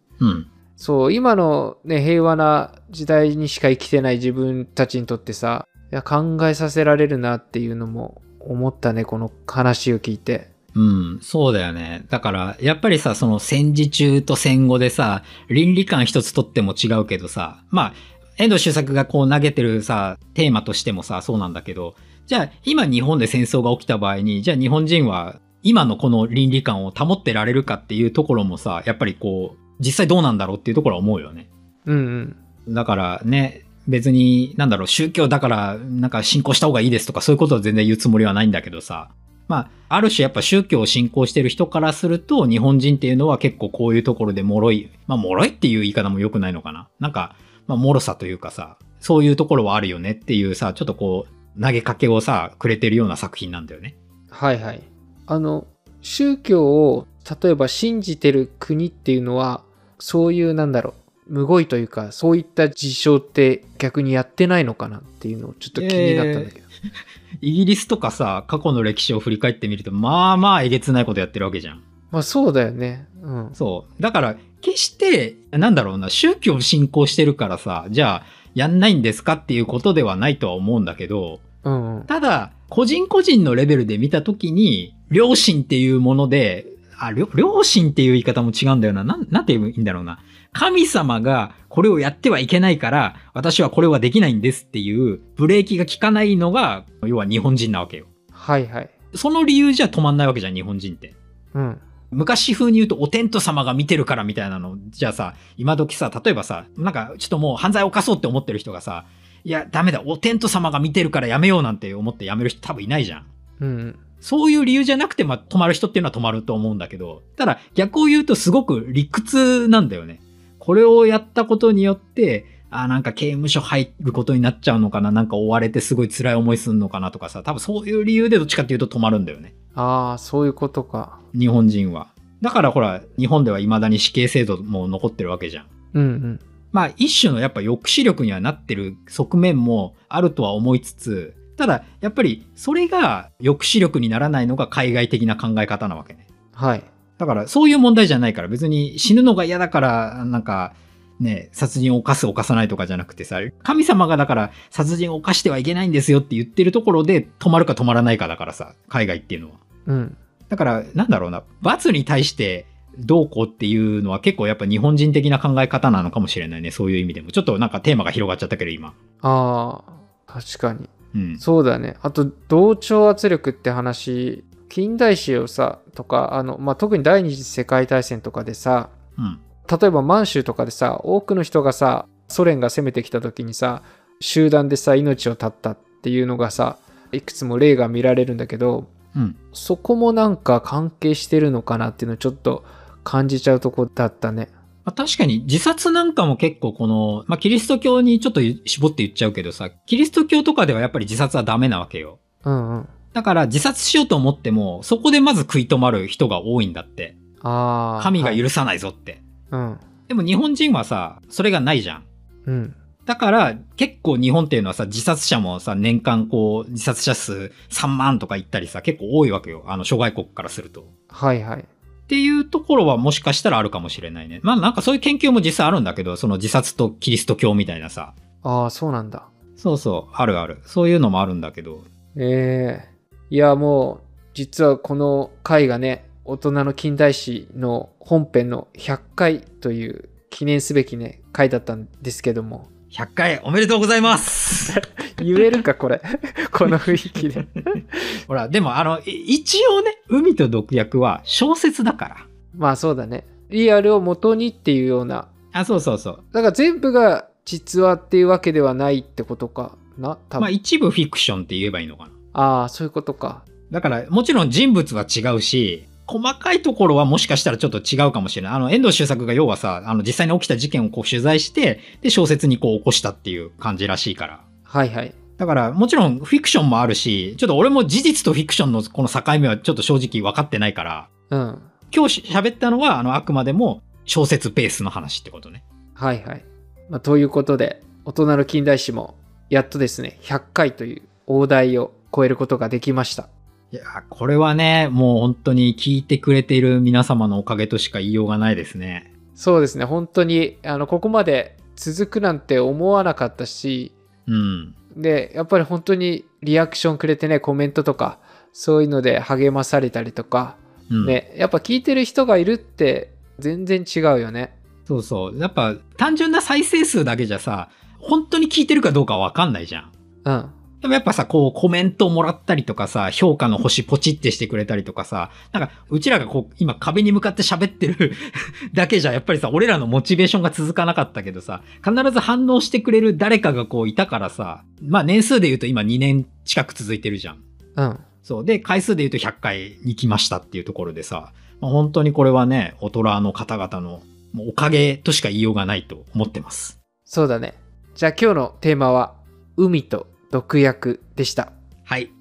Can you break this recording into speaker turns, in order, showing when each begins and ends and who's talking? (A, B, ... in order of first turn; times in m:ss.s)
0:00.2-0:00.5 A
0:00.8-0:10.5 B
0:10.8-0:31.5 A
0:31.9-0:32.4 B
0:32.7-0:54.0 A
0:54.3-1:06.6 B
1:05.8-1:06.6 A
1:07.4-1:11.8 A
1:12.1-1:13.6 B
1:13.6-1:21.4 A
1:21.6-1:22.1 B
1:22.1-1:38.1 A
1:38.3-1:38.9 B
1:39.1-1:41.2 A
1:41.5-1:41.8 B
1:42.1-1:53.3 A
1:53.6-1:54.0 B
1:54.2-2:09.5 A
2:09.8-2:11.2 B
2:11.3-2:15.7 A
2:15.9-2:16.4 B
2:16.7-2:26.2 A
2:26.5-2:26.9 B
2:27.2-2:39.6 A
2:39.9-2:40.2 B
2:40.5-2:49.0 A
2:49.2-2:58.9 B
2:51.1-2:51.4 A
2:59.7-3:08.9 B
3:09.5-3:14.5 B
3:14.8-3:22.2 A
3:22.4-3:22.9 B
3:23.1-3:27.2 A
3:27.4-3:28.4 B
3:28.0-3:29.2 A
3:29.5-3:29.8 B
3:30.1-3:32.0 A
3:32.5-3:32.8 B
3:33.1-3:40.9 A
3:41.1-3:41.7 B
3:42.1-3:48.2 A
3:48.4-3:49.3 B
3:49.6-3:51.8 A
3:52.2-4:02.7 B
4:02.9-4:05.4 A
4:04.7-4:07.8 B
4:08.3-4:12.2 A
4:12.5-4:15.3 B
4:15.5-4:16.2 A
4:16.3-4:20.5 B
4:20.4-4:22.1 A
4:22.3-4:23.4 B
4:23.7-4:34.4 A
4:34.7-4:35.2 B
4:35.4-4:41.1 A
4:41.3-4:41.7 B
4:41.9-4:45.6 A
4:46.0-4:53.3 B
4:53.7-4:59.1 A
4:59.4-5:03.9 B
5:04.3-5:04.7 A
5:04.9-5:14.5 B
5:10.9-5:11.2 A
5:14.9-5:19.9 A
5:20.2-5:20.6 B
5:20.8-5:37.4 A
5:37.8-5:38.0 B
5:38.2-5:46.8 A
5:47.1-5:51.5 B
5:51.9-5:52.1 A